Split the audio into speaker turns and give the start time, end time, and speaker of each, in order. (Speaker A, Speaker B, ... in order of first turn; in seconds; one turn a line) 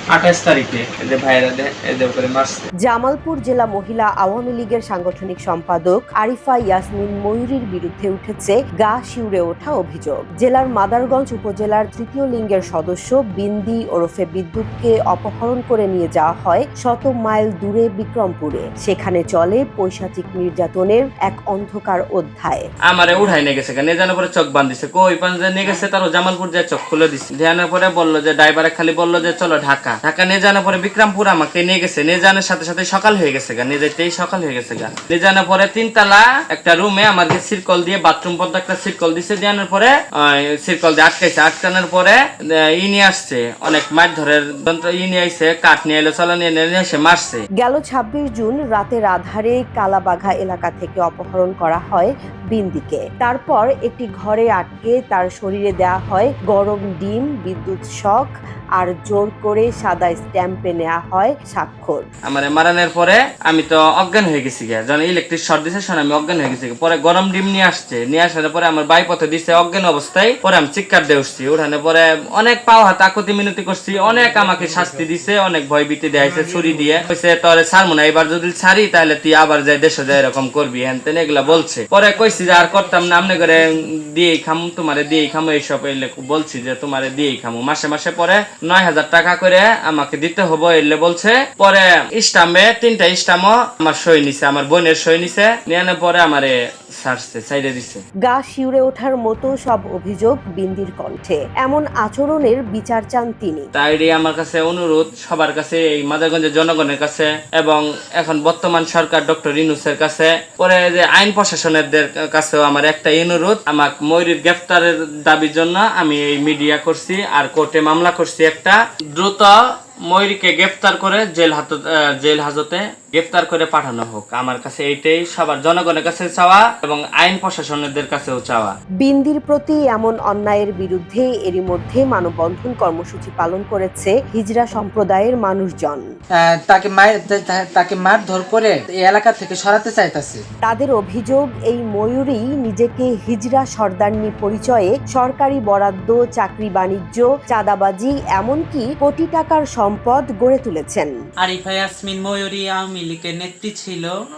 Speaker A: 0.1-2.6
Speaker B: 2.9-22.7
Speaker A: 22.9-42.2
Speaker A: 42.8-47.4
Speaker B: 47.6-62.1
Speaker A: 62.3-98.0
Speaker C: 74.1-75.1
Speaker C: 76.3-76.9
Speaker B: 98.3-103.7
Speaker A: 103.8-119.5
Speaker A: 120.1-128.8
Speaker B: 129.0-136.0
Speaker C: 136.4-140.4
Speaker B: 140.6-151.1
Speaker D: 151.4-154.1